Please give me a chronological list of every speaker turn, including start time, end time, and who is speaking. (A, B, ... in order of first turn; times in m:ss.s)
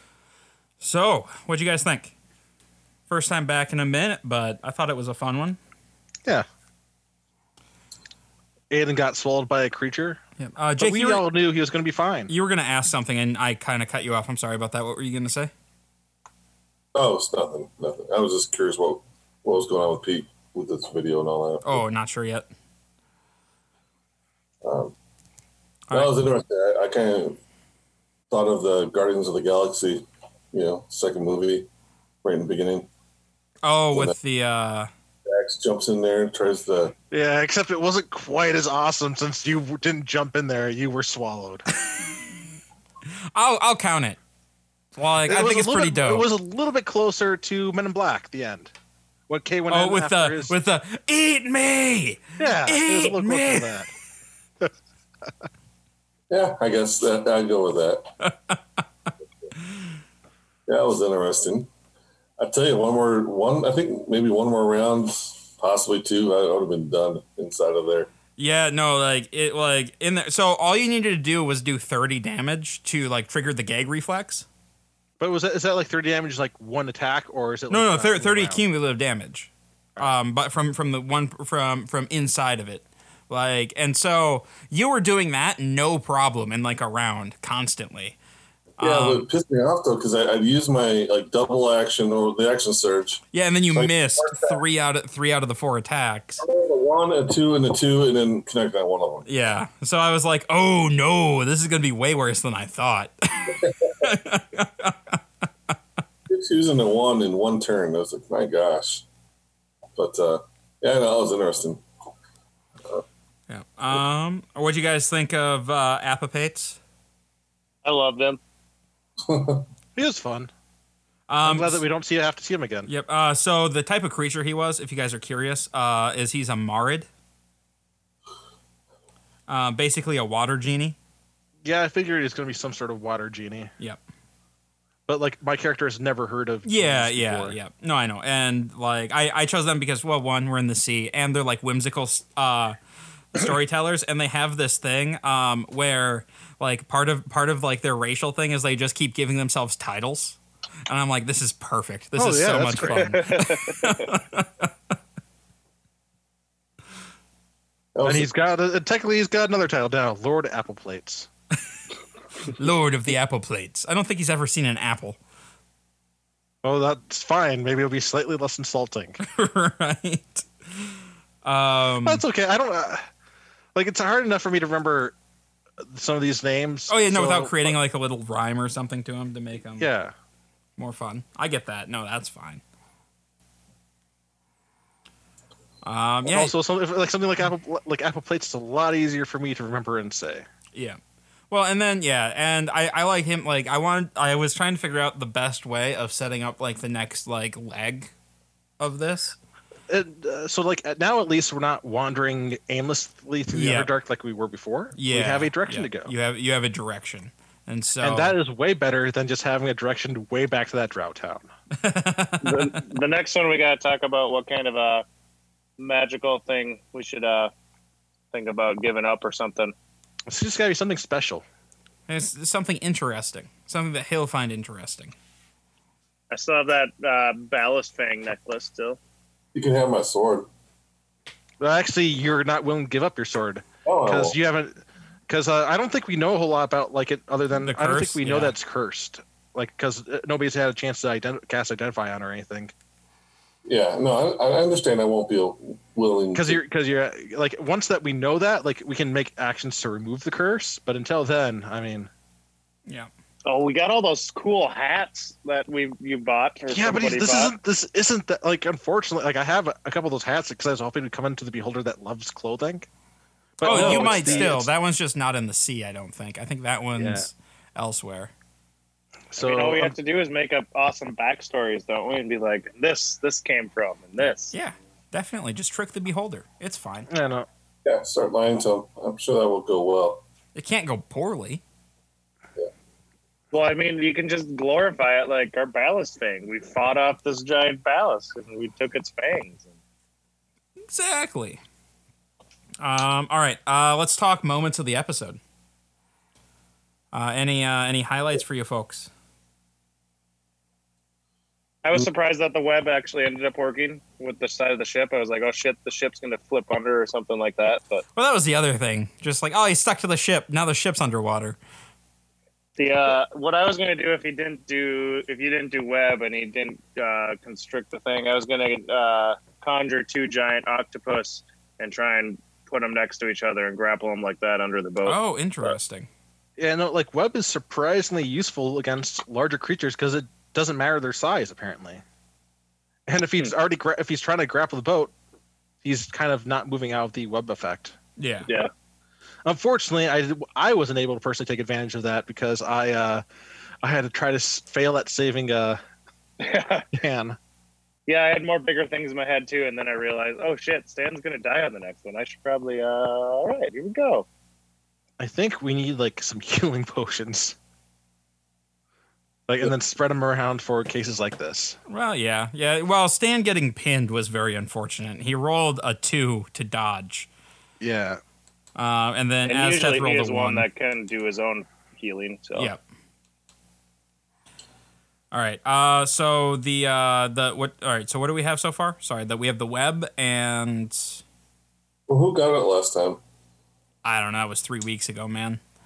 0:00.8-0:02.2 A
0:03.1-0:05.6 A
0:08.7-0:10.2 B
0:10.4-0:11.2 A
0:10.8-0:12.3 B
0:12.3-0:15.5 A
0:17.0-0:21.8 C
0:21.6-0:22.5 A
0:24.6-0:25.0 C
0:25.9-0:27.4 C
0:28.3-0:31.7 C
0:32.2-0:32.9 C
0:33.6-0:34.9 A
0:33.9-0:34.2 C
0:35.3-0:36.9 C
0:37.1-0:41.6 B
0:43.3-0:44.2 A
0:45.0-0:46.3 A
0:45.3-0:48.7 B
0:49.3-0:50.6 B
0:49.7-0:53.7 A
0:52.4-0:53.9 B
0:56.3-0:58.1 C
0:58.2-0:58.6 A
1:00.7-1:01.7 C
1:02.4-1:08.1 C
1:08.4-1:14.5 A
1:15.2-1:18.6 B
1:17.7-1:28.2 A
1:28.8-1:29.3 A
1:28.8-1:34.6 C
1:33.3-1:36.4 A
1:36.4-1:39.3 C
1:39.3-1:45.2 A
1:46.3-1:49.1 C
1:50.0-1:51.8 C
1:53.5-1:56.8 A
1:57.8-1:58.4 D
1:59.2-1:59.6 C
2:00.0-2:00.5 B
2:01.3-2:01.8 A
2:01.4-2:02.9 B
2:02.9-2:07.1 A
2:09.5-2:11.0 A
2:11.6-2:13.7 B
2:15.1-2:17.6 B
2:16.6-2:22.8 A
2:23.3-2:34.7 A
2:32.2-2:33.1 B
2:32.8-2:34.2 D
2:38.0-2:38.3 C
2:38.0-2:41.3 B
2:42.4-2:45.2 A
2:46.6-2:49.2 B
2:49.2-2:50.9 A
2:51.4-2:52.2 A
2:52.0-2:53.0 B
2:53.8-2:55.2 B
2:55.8-2:57.8 B
2:56.9-2:59.9 A
2:59.8-3:00.1 B
3:00.8-3:02.6 A
3:05.8-3:06.5 A
3:06.2-3:10.4 B
3:10.7-3:11.0 A
3:11.5-3:18.1 A
3:18.8-3:19.4 A
3:19.9-3:26.1 B
3:23.5-3:23.9 A
3:25.0-3:28.4 A
3:28.0-3:31.5 B
3:31.8-3:32.7 A
3:32.4-3:35.0 D
3:35.8-3:37.5 D
3:38.3-3:39.7 D
3:40.3-3:41.4 B
3:42.1-3:45.1 A
3:46.3-3:49.0 D
3:49.6-3:50.5 C
3:51.6-4:02.7 B
3:53.8-3:54.4 C
3:57.6-3:58.6 A
4:03.7-4:06.6 C
4:06.3-4:12.1 B
4:13.4-4:17.6 D
4:16.7-4:22.9 B
4:23.6-4:24.7 B
4:23.6-4:28.3 A
4:23.7-4:24.5 D
4:27.0-4:27.3 B
4:29.3-4:30.0 B
4:29.4-4:34.5 D
4:34.5-4:37.1 A
4:37.1-4:37.5 B
4:37.8-4:40.2 C
4:40.6-4:41.6 A
4:43.5-4:49.7 D
4:50.9-4:51.6 A
4:52.8-4:55.4 A
4:57.1-4:59.1 A
5:01.8-5:08.0 D
5:08.2-5:11.6 A
5:12.8-5:25.8 D
5:25.0-5:26.1 A
5:26.6-5:32.0 B
5:33.1-5:35.1 B
5:35.8-5:38.0 B
5:38.2-5:38.5 A
5:39.4-5:43.2 B
5:43.8-5:45.8 B
5:46.4-5:46.9 D
5:46.9-5:47.4 B
5:48.1-5:54.3 D
5:55.2-5:57.6 B
5:59.5-6:01.8 B
6:01.9-6:07.3 A
6:07.8-6:08.2 B
6:08.8-6:10.7 A
6:09.4-6:12.7 D
6:12.6-6:12.8 A
6:15.3-6:21.2 A
6:22.1-6:23.2 C
6:24.0-6:25.6 A